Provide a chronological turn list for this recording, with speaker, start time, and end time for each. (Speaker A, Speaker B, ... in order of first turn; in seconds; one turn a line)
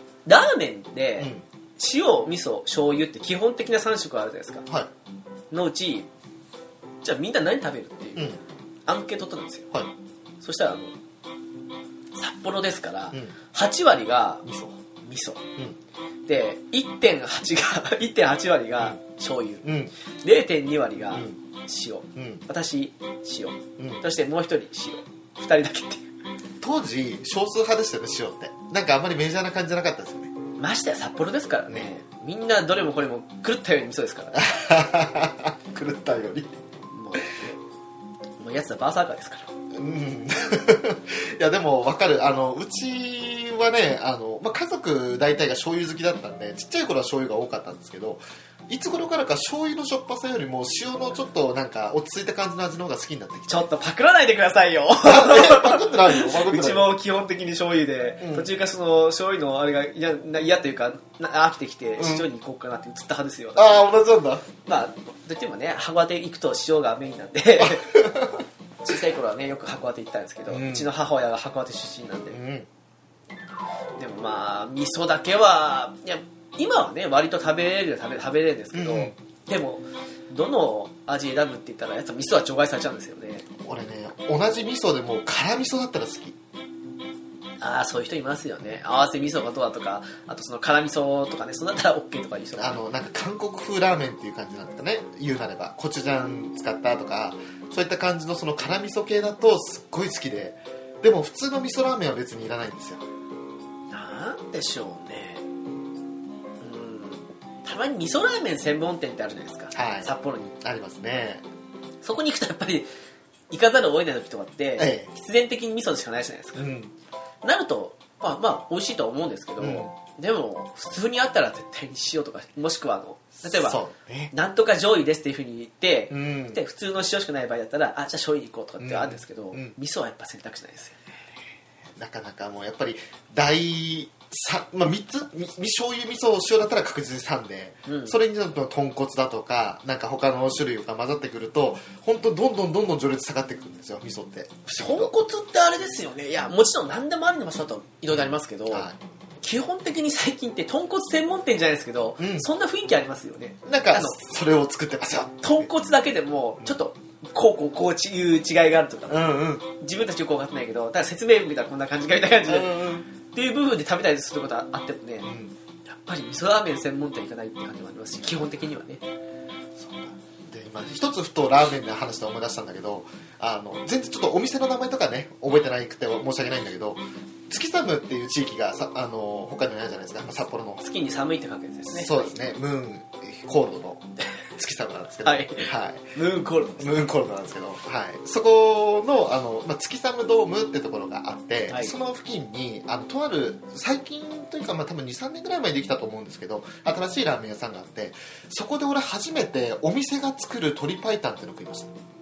Speaker A: 0.2-4.7
Speaker B: 1.2-1.4
Speaker A: 5.5-6.1
Speaker A: 7.0-9.7
Speaker B: 8.2-8.4
Speaker A: 10.4-10.9
Speaker A: 12.1-14.4
Speaker B: 14.4-14.8
Speaker A: 15.0-15.4
Speaker A: 16.3-19.6
Speaker B: 19.6-19.9
Speaker A: 20.2-26.1
Speaker B: 21.1-21.4
Speaker B: 22.2-22.4
Speaker B: 26.6-30.3
Speaker A: 30.6-34.5
Speaker B: 34.4-36.5
Speaker A: 36.9-37.6
Speaker A: 38.4-39.5
Speaker B: 39.7-53.7
Speaker A: 53.5-63.9
Speaker B: 55.0-56.9
Speaker B: 58.2-58.5
Speaker B: 62.0-62.3
Speaker B: 63.6-64.5
Speaker A: 64.6-68.0
Speaker B: 67.6-68.4
Speaker A: 68.8-72.4
Speaker B: 70.5-70.9
Speaker B: 72.3-72.7
Speaker A: 74.0-83.5
Speaker B: 78.7-79.1
Speaker B: 83.6-86.4
Speaker A: 87.6-92.8
Speaker B: 92.6-103.0
Speaker A: 103.9-105.4
Speaker A: 106.6-110.5
Speaker B: 109.7-111.5
Speaker A: 112.0-112.9
Speaker A: 113.5-116.7
Speaker B: 114.8-115.1
Speaker B: 116.6-116.9
Speaker A: 117.4-123.8
Speaker B: 119.6-119.9
Speaker B: 123.4-124.3
Speaker A: 124.3-131.1
Speaker B: 126.1-126.6
Speaker B: 128.8-129.7
Speaker B: 132.0-145.1
Speaker A: 137.9-138.2
Speaker A: 144.8-148.9
Speaker B: 148.7-149.0
Speaker A: 149.4-154.2
Speaker B: 152.2-152.5
Speaker B: 153.7-155.7
Speaker A: 155.4-165.3
Speaker B: 159.1-159.7
Speaker B: 162.5-163.1
Speaker B: 165.2-165.5
Speaker A: 165.8-169.1
Speaker B: 168.2-168.5
Speaker B: 169.8-180.8
Speaker A: 180.8-182.3
Speaker B: 181.9-186.1
Speaker A: 185.2-187.1
Speaker B: 186.8-201.9
Speaker A: 191.7-192.0